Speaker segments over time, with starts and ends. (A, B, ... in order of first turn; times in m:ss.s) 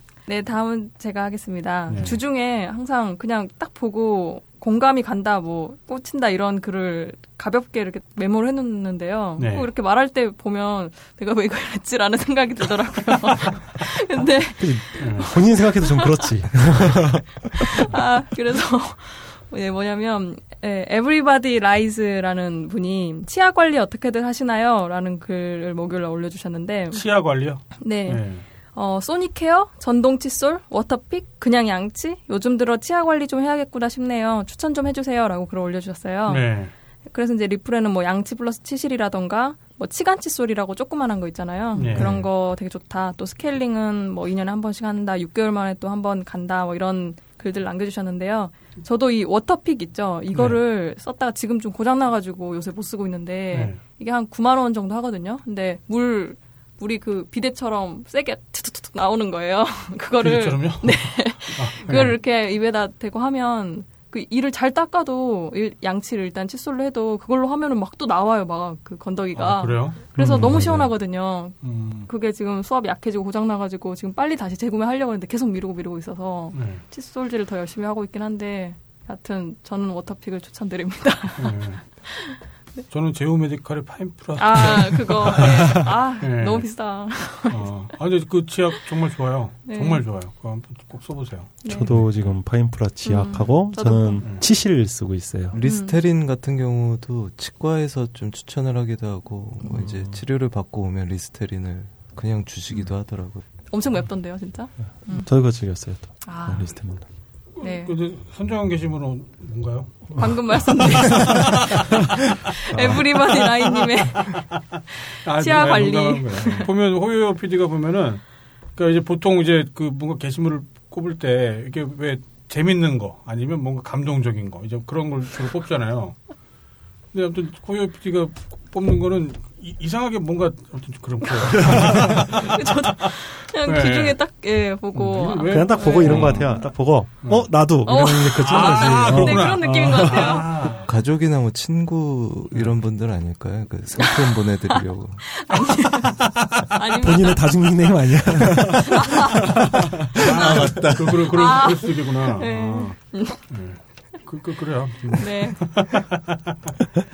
0:00.3-0:16.8 A
0:01.9-0:02.2 B
0:09.4-0:09.7 B
0:14.6-0:17.9 C
0:15.0-0:15.3 B
0:17.5-0:27.0 A
0:26.9-0:28.4 B
0:27.8-0:36.5 A
0:36.3-0:36.7 B
0:37.1-1:11.6 A
0:41.8-0:42.3 B
0:50.3-0:50.6 B
0:53.5-0:53.8 B
1:00.2-1:02.2 B
1:09.3-1:10.9 B
1:10.1-1:10.9 C
1:11.6-1:12.1 B
1:12.1-1:22.4 A
1:16.5-1:16.8 B
1:21.4-1:21.8 B
1:22.9-1:25.6 B
1:24.4-1:27.8 A
1:25.4-1:25.9 C
1:26.2-1:26.7 B
1:27.5-1:32.1 B
1:29.6-1:30.0 A
1:31.6-1:32.0 A
1:31.7-1:35.6 C
1:33.0-1:34.4 A
1:35.5-1:43.4 D
1:35.6-1:36.0 A
1:43.7-1:45.3 A
1:45.1-1:47.0 C
1:46.2-1:46.7 A
1:47.6-1:50.0 B
1:47.6-1:48.0 A
1:50.2-1:54.5 A
1:51.0-1:51.4 C
1:51.1-1:52.0 B
1:55.2-1:58.2 B
1:55.2-1:56.7 A
1:58.8-2:06.2 B
2:07.1-2:13.1 B
2:11.4-2:16.7 A
2:11.6-2:12.3 C
2:13.6-2:14.2 B
2:14.9-2:16.6 B
2:15.4-2:20.3 C
2:17.2-2:17.5 B
2:17.8-2:20.6 A
2:18.3-2:20.9 B
2:20.8-2:25.2 D
2:24.0-2:27.9 A
2:25.5-2:26.8 B
2:26.9-2:30.3 C
2:28.8-2:29.5 A
2:30.2-2:36.7 B
2:30.2-2:31.3 D
2:31.3-2:33.4 A
2:35.2-2:35.6 A